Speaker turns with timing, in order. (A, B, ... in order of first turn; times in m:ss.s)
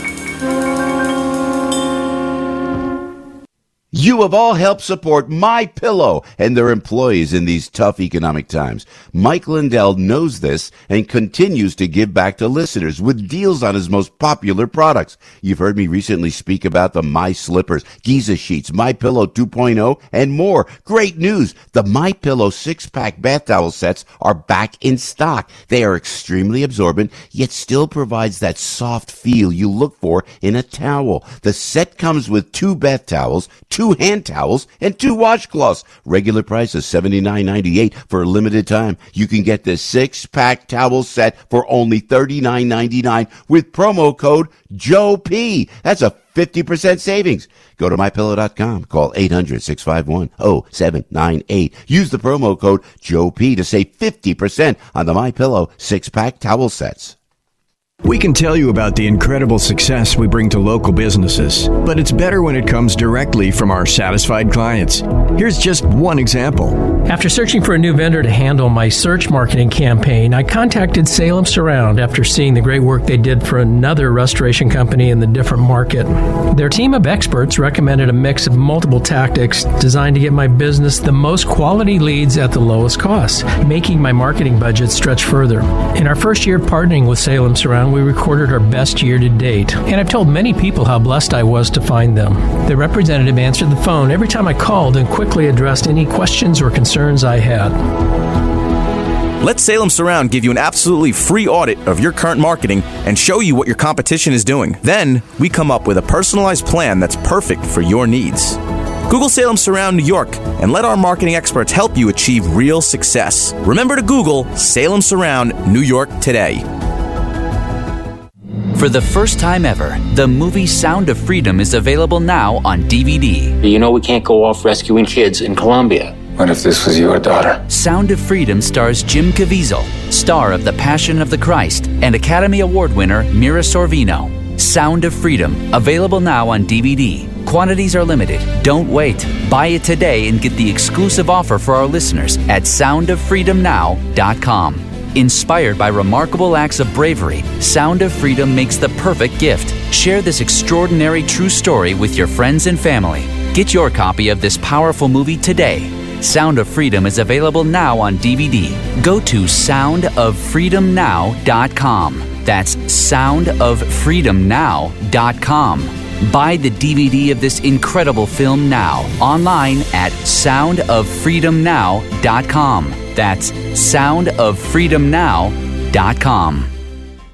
0:03.9-0:57.2 A
0:58.1-1:06.8 B
1:07.1-1:37.8 C
1:39.4-1:56.7 D
1:58.8-2:03.6 E
2:03.6-2:07.6 F
2:07.7-2:56.7 E